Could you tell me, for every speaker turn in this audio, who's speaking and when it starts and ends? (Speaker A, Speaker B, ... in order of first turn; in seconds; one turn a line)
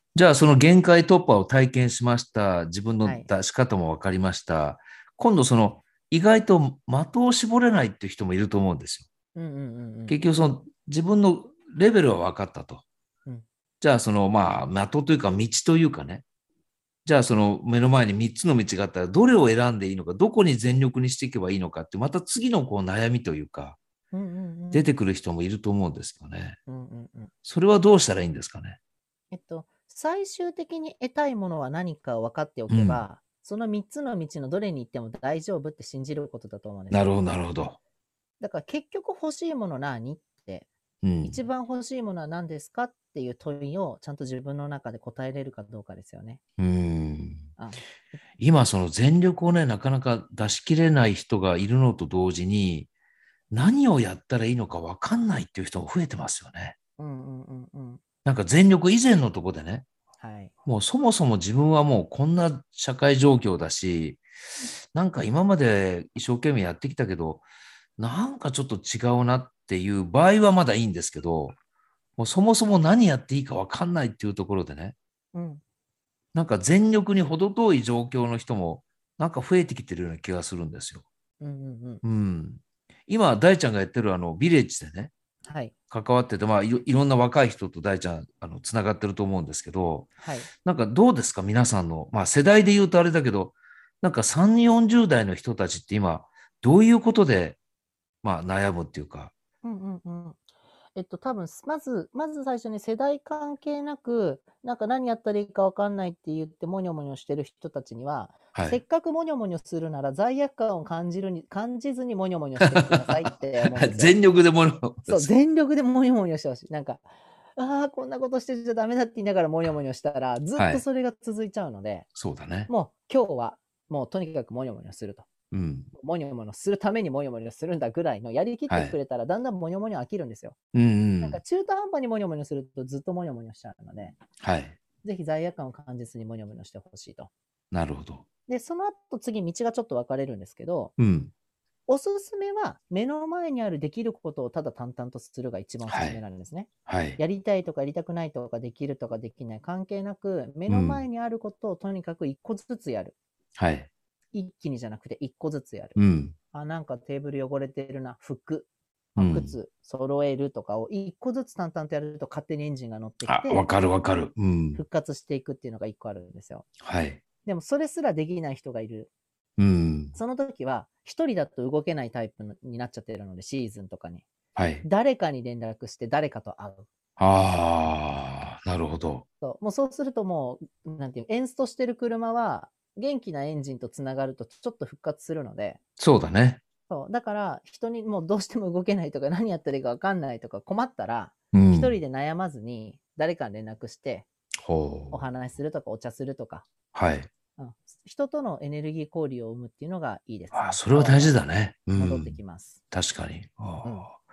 Speaker A: 0.1-9.1
Speaker B: 3.0-3.3
Speaker B: 9.3-10.2
Speaker A: 10.1-12.8
Speaker A: 13.8-16.2
Speaker A: 17.0-23.8
Speaker B: 24.1-24.9
Speaker A: 24.7-26.6
Speaker B: 26.7-27.3
Speaker A: 27.4-28.8
Speaker B: 29.3-37.0
Speaker A: 32.7-33.0
Speaker A: 36.9-37.8
Speaker B: 38.4-40.7
Speaker A: 41.0-41.4
Speaker B: 41.2-46.4
Speaker A: 46.6-47.5
Speaker B: 47.6-47.8
Speaker A: 48.4-52.9
Speaker A: 53.5-56.7
Speaker B: 57.0-58.0
Speaker A: 58.2-59.9
Speaker B: 60.2-60.5
Speaker A: 60.6-64.2
Speaker A: 64.9-67.4
Speaker A: 68.0-71.5
Speaker A: 72.2-74.9
Speaker B: 75.3-75.6
Speaker A: 76.3-81.0
Speaker B: 81.4-82.0
Speaker A: 82.0-85.1
Speaker B: 85.4-85.7
Speaker A: 85.9-90.1
Speaker B: 90.2-90.5
Speaker A: 90.6-97.6
Speaker A: 98.2-99.3
Speaker B: 99.6-100.4
Speaker B: 100.9-114.2
Speaker A: 108.5-108.8
Speaker A: 112.6-115.3
Speaker B: 115.0-122.1
Speaker A: 120.5-120.8
Speaker A: 122.1-122.7
Speaker B: 122.7-125.3
Speaker A: 125.5-125.9
Speaker B: 125.9-130.5
Speaker A: 128.7-128.9
Speaker A: 130.7-131.4
Speaker B: 131.2-134.2
Speaker A: 134.4-134.8
Speaker B: 135.0-137.3
Speaker A: 137.7-138.2
Speaker B: 138.5-140.9
Speaker A: 141.0-141.3
Speaker B: 141.9-153.1
Speaker A: 145.8-146.2
Speaker A: 146.9-147.2
Speaker A: 150.7-151.0
Speaker A: 153.6-153.9
Speaker B: 154.3-156.0
Speaker A: 155.9-156.3
Speaker B: 156.5-163.7
Speaker A: 159.2-159.5
Speaker A: 163.2-164.8
Speaker B: 164.7-166.7
Speaker A: 166.8-167.2
Speaker B: 167.4-169.1
Speaker A: 169.6-170.2
Speaker B: 170.1-174.2
Speaker A: 174.6-174.8
Speaker B: 174.8-176.9
Speaker A: 177.2-179.2
Speaker B: 179.4-185.8
Speaker A: 186.0-186.6
Speaker B: 186.9-194.3
Speaker A: 191.5-192.0
Speaker A: 194.6-195.2
Speaker B: 195.1-196.7
Speaker A: 196.9-197.3
Speaker B: 197.6-201.4
Speaker A: 200.5-202.3
Speaker B: 202.0-202.8
Speaker A: 202.9-204.2
Speaker B: 203.8-204.1